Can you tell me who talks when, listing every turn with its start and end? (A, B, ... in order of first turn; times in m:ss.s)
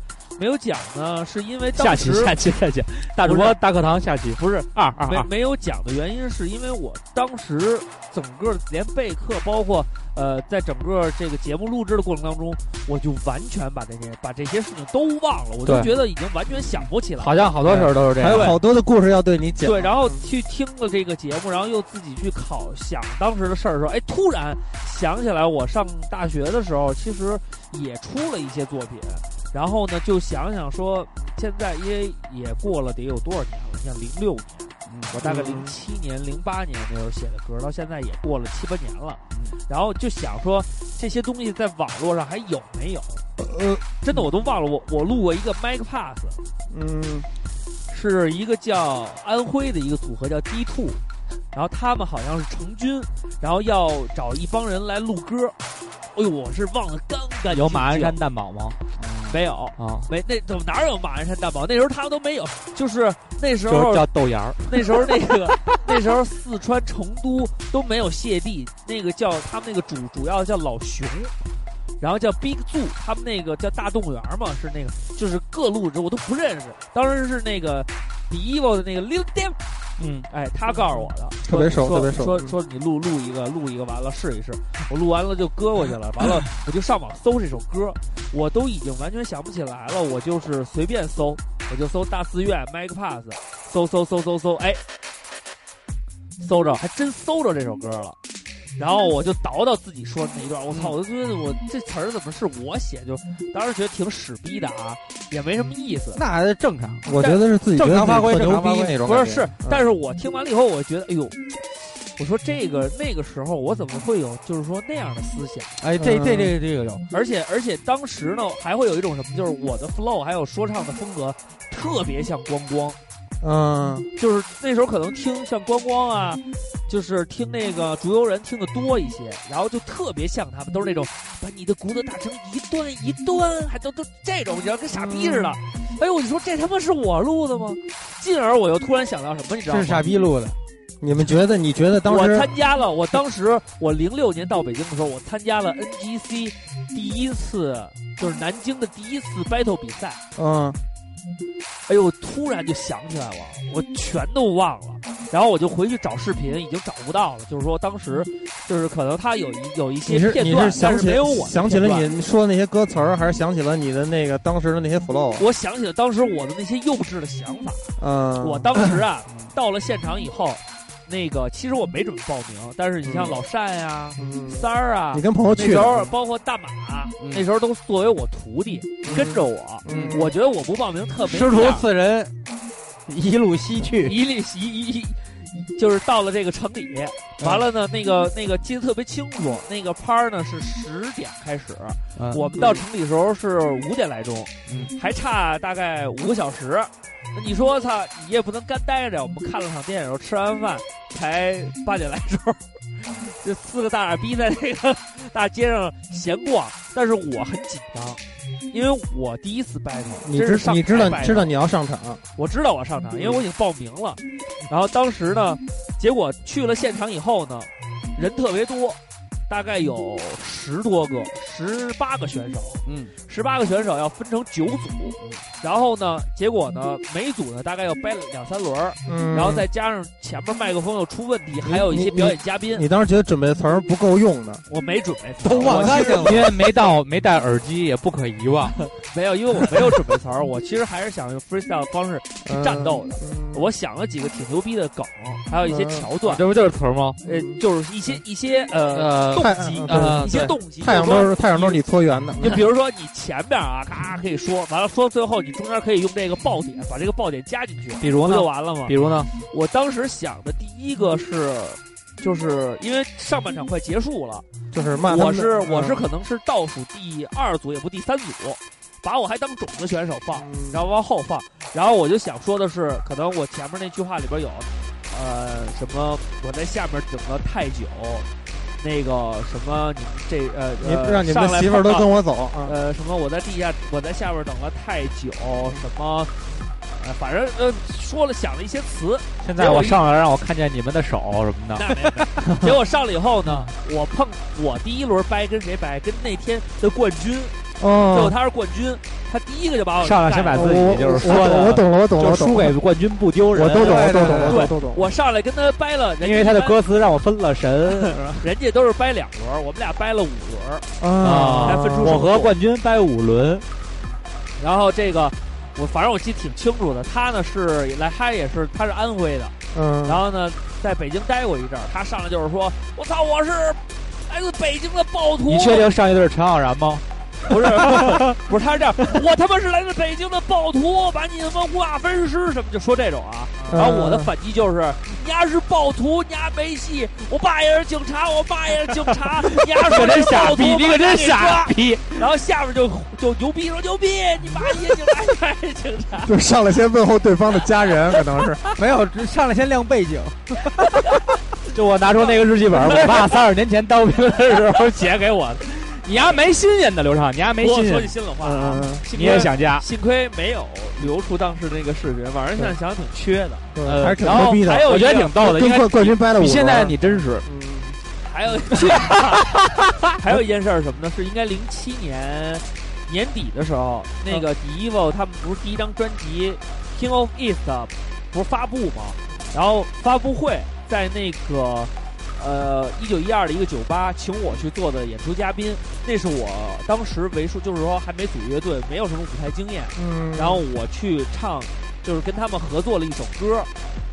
0:00.4-0:02.4 A
0:01.8-0:05.3 B
0:03.2-0:03.6 A
0:05.1-0:18.6 A
0:17.2-0:18.6 B
0:17.7-0:20.2 C
0:19.6-0:43.2 A
0:34.9-0:35.1 D
0:35.2-0:35.7 C
0:39.3-0:39.6 D
0:43.4-0:43.8 C
0:44.0-0:46.4 A
0:46.7-0:47.3 C
0:47.9-0:51.0 A
0:51.5-0:55.6 A
0:56.1-0:58.2 A
0:57.5-0:58.8 B
0:59.0-0:59.4 D
0:59.3-1:04.0 A
0:59.8-1:00.1 B
1:03.7-1:05.0 B
1:04.6-1:11.3 A
1:12.0-1:19.6 A
1:20.0-1:20.3 B
1:20.3-1:34.8 A
1:21.4-1:22.5 C
1:36.4-1:38.2 A
1:38.8-1:46.2 A
1:40.7-1:40.9 D
1:46.1-1:47.1 D
1:47.0-1:49.8 C
1:47.2-1:47.4 A
1:47.7-1:49.0 D
1:49.0-1:55.8 A
1:55.8-1:57.0 D
1:55.9-1:56.6 C
1:57.1-2:03.0 A
2:03.4-2:04.1 C
2:04.2-2:20.0 A
2:14.9-2:15.6 C
2:19.7-2:20.6 D
2:21.0-2:22.5 C
2:22.0-2:30.2 A
2:30.3-2:30.8 C
2:31.9-2:42.1 A
2:40.0-2:45.4 C
2:45.4-3:01.9 A
2:48.0-2:48.7 C
2:53.0-2:53.4 C
2:54.2-2:56.1 C
2:57.2-2:57.4 D
2:59.0-3:00.3 C
2:59.1-2:59.3 D
2:59.8-3:00.2 D
3:01.2-3:02.3 D
3:03.1-3:04.2 D
3:04.0-3:31.5 A
3:07.4-3:07.6 D
3:12.2-3:12.4 D
3:12.6-3:12.8 C
3:14.7-3:14.9 D
3:30.2-3:32.2 C
3:32.4-3:52.8 A
3:42.8-3:43.1 D
3:49.0-3:49.6 C
3:51.6-3:54.6 C
3:54.7-3:56.4 A
3:55.4-3:56.5 D
3:55.5-3:56.3 C
3:55.6-3:58.8 B
3:58.9-4:06.4 A
4:02.4-4:03.6 C
4:05.6-4:06.1 C
4:06.2-4:07.2 B
4:07.2-4:07.6 C
4:07.2-4:11.8 A
4:08.9-4:10.6 B
4:09.3-4:12.6 C
4:12.4-4:24.4 A
4:18.0-4:19.3 B
4:24.7-4:26.0 C
4:25.1-4:38.3 A
4:30.3-4:30.8 C
4:38.8-4:42.1 A
4:40.8-4:42.7 C
4:42.6-4:50.0 A
4:49.4-4:51.8 B
4:51.7-4:57.5 A
4:52.4-4:52.7 B
4:57.8-4:58.3 C
4:58.1-5:01.4 A
5:00.0-5:04.5 B
5:00.5-5:02.8 C
5:03.5-5:05.0 C
5:03.8-5:04.6 D
5:04.5-5:06.8 A
5:06.2-5:08.4 B
5:08.0-5:10.9 A
5:11.0-5:12.2 C
5:11.2-5:13.6 B
5:11.6-5:12.5 A
5:14.6-5:19.5 A
5:19.7-5:20.2 C
5:20.0-5:25.9 A
5:25.4-5:28.4 B
5:27.5-5:46.3 A
5:33.7-5:34.3 C
5:39.8-5:42.2 B
5:46.2-5:48.6 C
5:48.8-5:50.6 D
5:51.7-5:58.1 B
5:52.2-5:53.3 A
5:54.7-5:55.1 A
5:57.6-6:05.3 A
5:58.4-5:59.0 C
5:59.1-5:59.8 B
6:03.7-6:08.0 C
6:03.8-6:07.4 B
6:08.2-6:09.5 A
6:10.2-6:33.7 A
6:29.9-6:30.6 C